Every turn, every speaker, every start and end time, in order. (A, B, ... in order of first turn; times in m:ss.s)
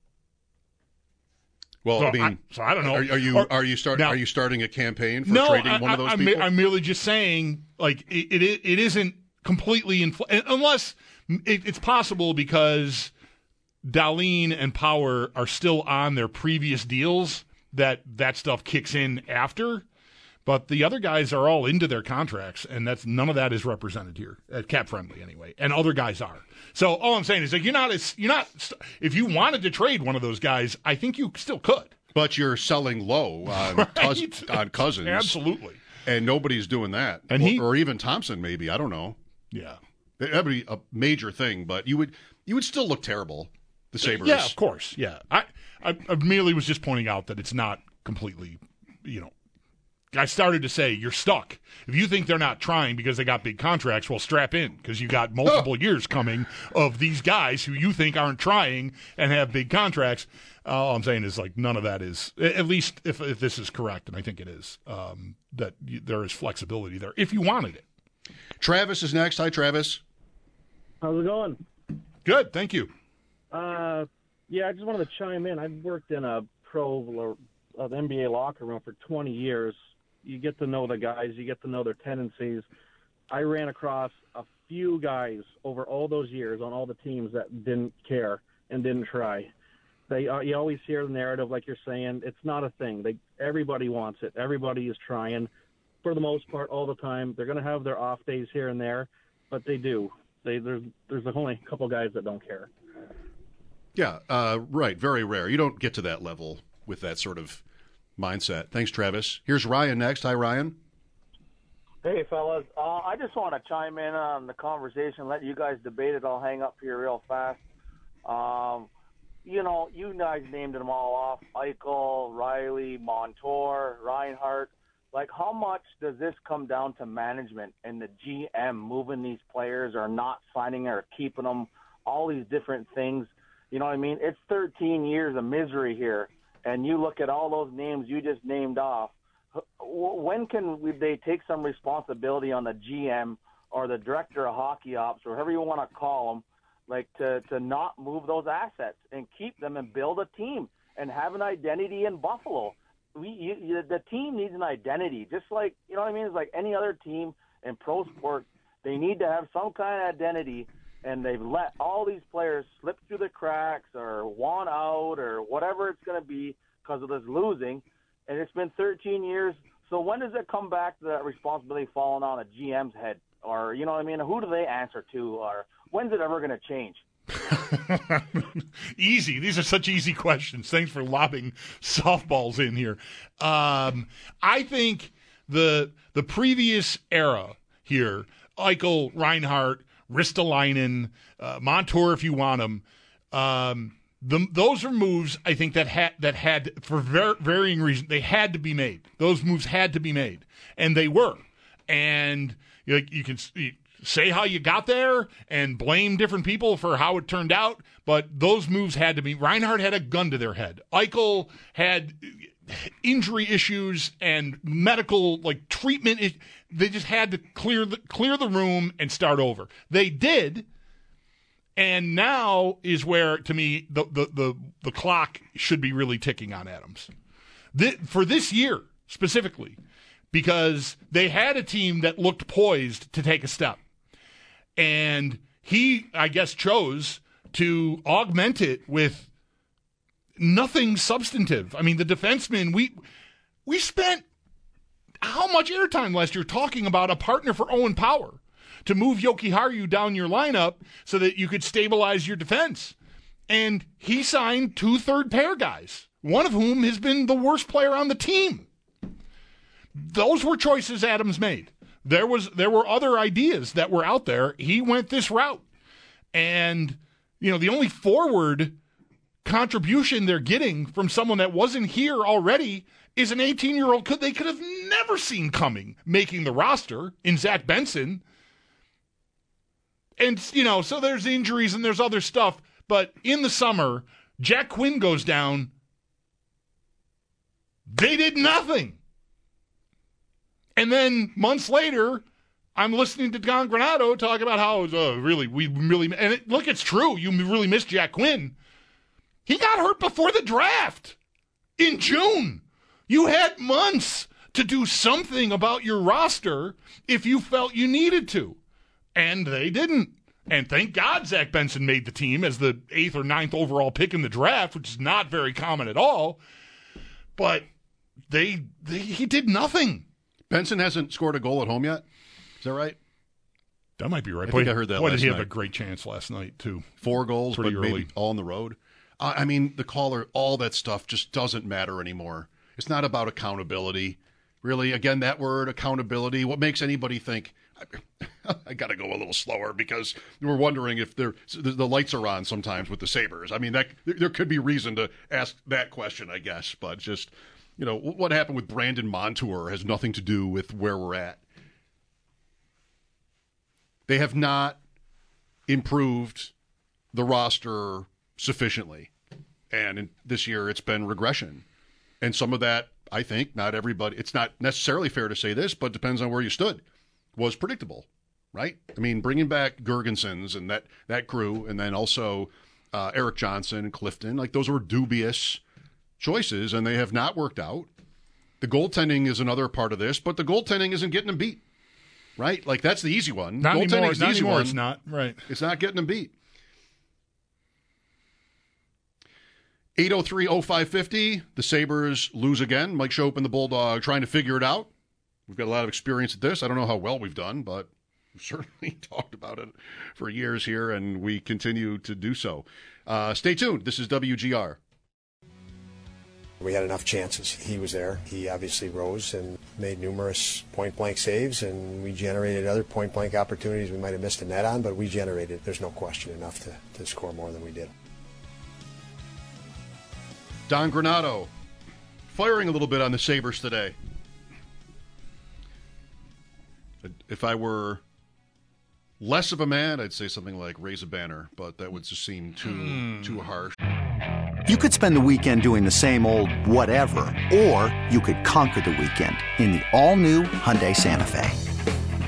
0:01.8-0:06.5 A
0:02.0-0:04.2 B
0:05.2-0:13.1 B
0:13.8-0:19.8 B
0:20.4-0:31.9 B
0:32.1-0:35.3 A
0:33.5-0:35.8 B
0:36.0-0:39.2 A
0:37.3-0:37.6 B
0:39.5-0:39.8 B
0:40.2-0:44.5 A
0:44.0-0:49.3 B
0:50.1-1:07.8 B
1:08.6-1:10.0 A
1:11.0-1:11.6 C
1:12.2-1:12.9 B
1:13.5-1:22.6 C
1:23.3-1:29.5 C
1:30.1-1:35.5 C
1:36.0-1:42.7 C
1:43.9-1:47.6 A
1:48.2-1:50.8 A
1:52.0-1:57.6 D
1:58.2-1:58.9 D
1:59.4-2:57.0 D
2:57.4-3:40.6 B
3:41.8-3:47.1 B
3:47.7-3:49.8 B
3:50.3-3:53.8 B
3:54.8-3:59.3 B
4:00.4-4:03.0 B
4:03.6-4:04.2 B
4:05.2-4:12.9 B
4:13.5-4:18.7 B
4:19.9-4:25.6 B
4:26.3-4:28.8 B
4:29.4-4:38.2 B
4:40.2-4:45.7 B
4:47.9-4:49.0 B
4:50.8-4:52.2 B
4:52.8-4:58.5 B
4:59.4-5:01.2 B
5:01.8-5:08.6 B
5:09.1-5:16.4 B
5:17.4-5:17.6 B
5:18.3-5:20.0 B
5:20.5-5:22.0 A
5:22.6-5:23.0 A
5:24.0-5:28.1 B
5:24.5-5:25.5 A
5:27.0-5:51.4 A
5:54.1-5:54.8 A
5:55.7-5:56.5 A
5:57.1-5:59.1 A
5:59.7-6:01.6 A
6:02.2-6:06.8 A
6:07.4-6:15.6 A
6:16.2-6:17.9 A
6:18.6-6:21.6 A
6:22.4-6:24.8 A
6:23.6-6:25.4 B
6:25.5-6:26.3 A
6:30.0-6:34.9 A
6:35.5-6:44.8 A
6:46.6-6:57.9 E
7:00.7-7:01.5 A
7:02.3-7:03.9 A
7:07.0-7:08.0 A
7:09.2-7:13.7 A
7:14.6-7:21.6 F